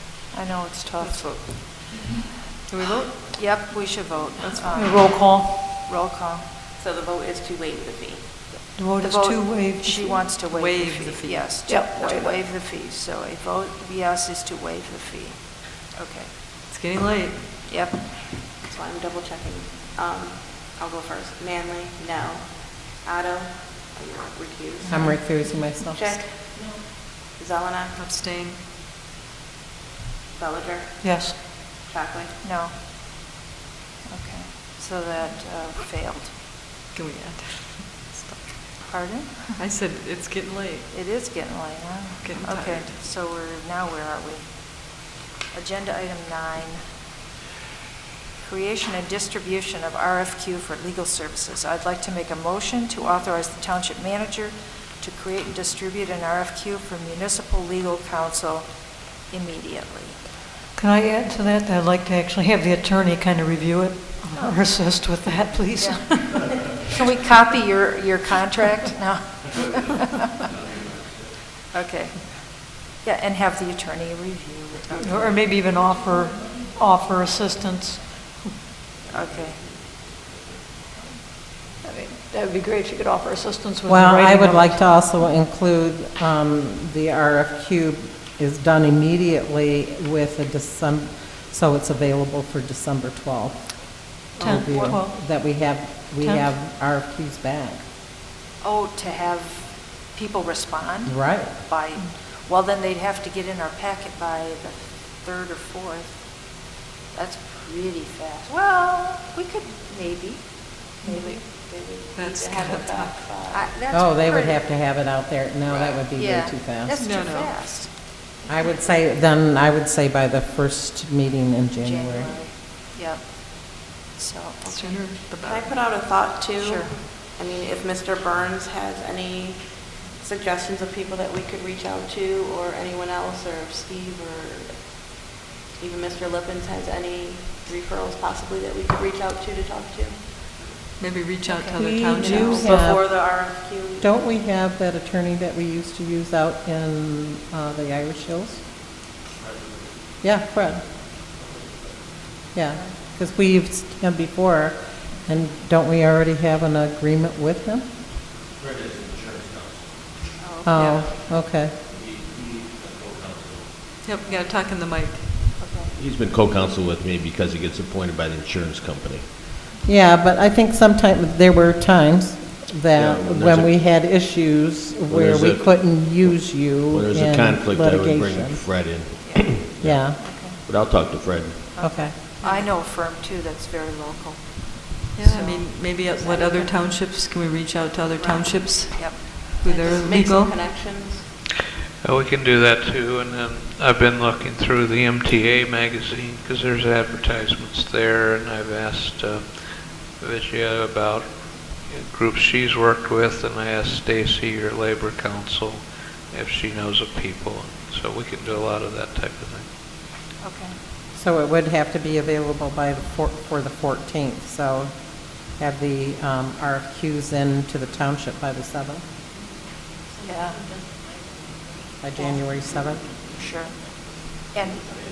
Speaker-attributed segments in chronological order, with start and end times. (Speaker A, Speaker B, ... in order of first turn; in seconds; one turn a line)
Speaker A: 0.3-1.8
Speaker B: 1.0-1.4
Speaker B: 2.7-3.3
Speaker A: 3.3-6.5
Speaker C: 4.6-5.7
Speaker D: 6.8-8.3
Speaker C: 8.7-10.5
Speaker A: 9.0-16.3
Speaker B: 10.5-11.6
Speaker C: 11.6-12.1
Speaker B: 16.7-17.4
Speaker A: 17.7-18.3
Speaker D: 18.7-25.2
Speaker E: 24.9-26.1
Speaker D: 25.9-27.9
Speaker B: 27.9-28.6
Speaker D: 30.3-31.0
Speaker C: 31.0-31.4
Speaker D: 31.8-32.3
Speaker A: 32.4-32.7
Speaker A: 34.0-36.3
Speaker B: 36.9-38.8
Speaker A: 38.8-39.6
Speaker B: 39.6-40.9
Speaker A: 40.9-45.0
Speaker B: 42.2-43.0
Speaker A: 45.5-46.9
Speaker A: 48.4-60.3
Speaker C: 60.7-66.6
Speaker A: 64.3-64.6
Speaker A: 65.8-69.9
Speaker F: 69.7-71.3
Speaker A: 71.7-75.3
Speaker C: 74.9-78.5
Speaker F: 79.1-80.8
Speaker A: 79.1-79.6
Speaker C: 81.8-84.9
Speaker E: 83.8-97.8
Speaker C: 94.4-95.1
Speaker A: 94.5-94.9
Speaker C: 96.2-96.5
Speaker A: 98.6-106.6
Speaker E: 101.0-101.6
Speaker A: 107.1-111.4
Speaker D: 111.3-114.6
Speaker B: 112.1-113.3
Speaker A: 113.5-113.7
Speaker E: 113.9-117.0
Speaker A: 116.1-117.9
Speaker B: 117.0-117.7
Speaker E: 118.5-122.4
Speaker A: 121.8-125.0
Speaker B: 124.6-125.8
Speaker D: 125.7-134.8
Speaker A: 126.6-127.0
Speaker D: 135.8-140.1
Speaker B: 141.0-142.9
Speaker A: 141.5-141.8
Speaker E: 141.8-143.5
Speaker D: 142.2-144.0
Speaker E: 144.0-148.6
Speaker F: 149.3-150.0
Speaker E: 150.2-150.8
Speaker F: 151.2-152.2
Speaker E: 152.5-157.9
Speaker F: 158.6-160.3
Speaker A: 160.4-160.9
Speaker E: 160.6-161.7
Speaker B: 160.8-161.1
Speaker F: 161.0-163.8
Speaker B: 164.0-165.6
Speaker A: 165.6-165.9
Speaker F: 165.8-169.3
Speaker E: 169.8-178.6
Speaker F: 172.9-173.8
Speaker F: 175.1-181.8
Speaker A: 179.2-179.6
Speaker E: 179.8-180.2
Speaker A: 180.2-180.6
Speaker A: 181.8-186.7
Speaker E: 181.8-182.1
Speaker B: 182.4-182.7
Speaker B: 185.1-190.6
Speaker D: 190.0-191.2
Speaker G: 192.0-209.7
Speaker A: 210.4-210.8
Speaker E: 211.1-219.0
Speaker A: 220.2-220.6
Speaker E: 222.0-223.2
Speaker A: 223.3-224.9